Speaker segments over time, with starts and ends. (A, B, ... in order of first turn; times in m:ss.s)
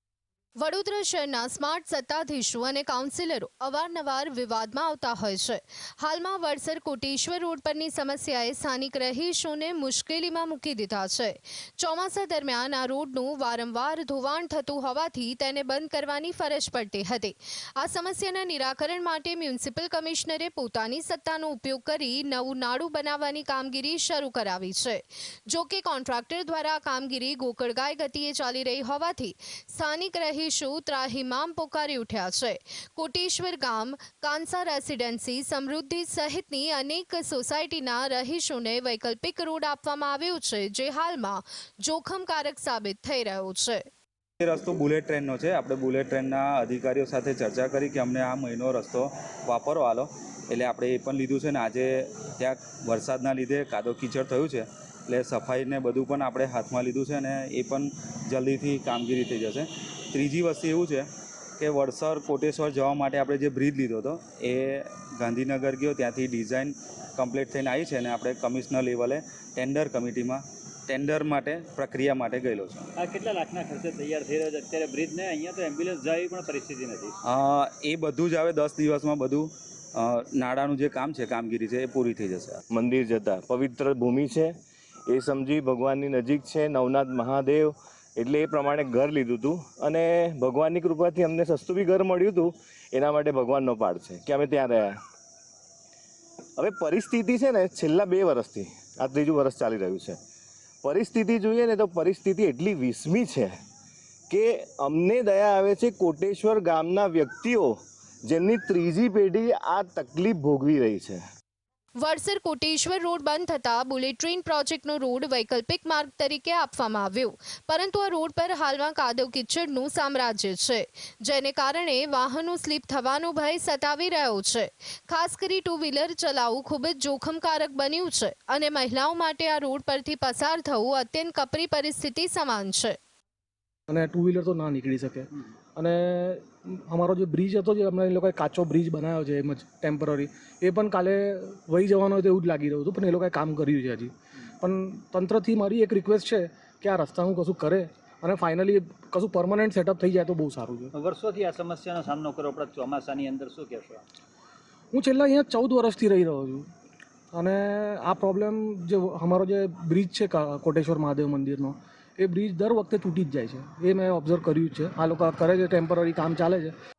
0:00.6-0:43.8 A
0:44.4-1:01.1 B
1:01.6-1:12.9 B
1:13.0-1:17.2 C
1:17.2-1:22.6 B
1:22.7-1:24.5 D
1:25.1-1:35.0 D
1:36.6-1:40.2 D
1:40.8-1:43.6 D
1:44.3-1:51.2 D
1:52.0-2:13.0 A
2:13.9-2:30.9 E
2:30.9-2:34.0 C
2:34.9-2:36.7 E
2:37.3-2:46.7 E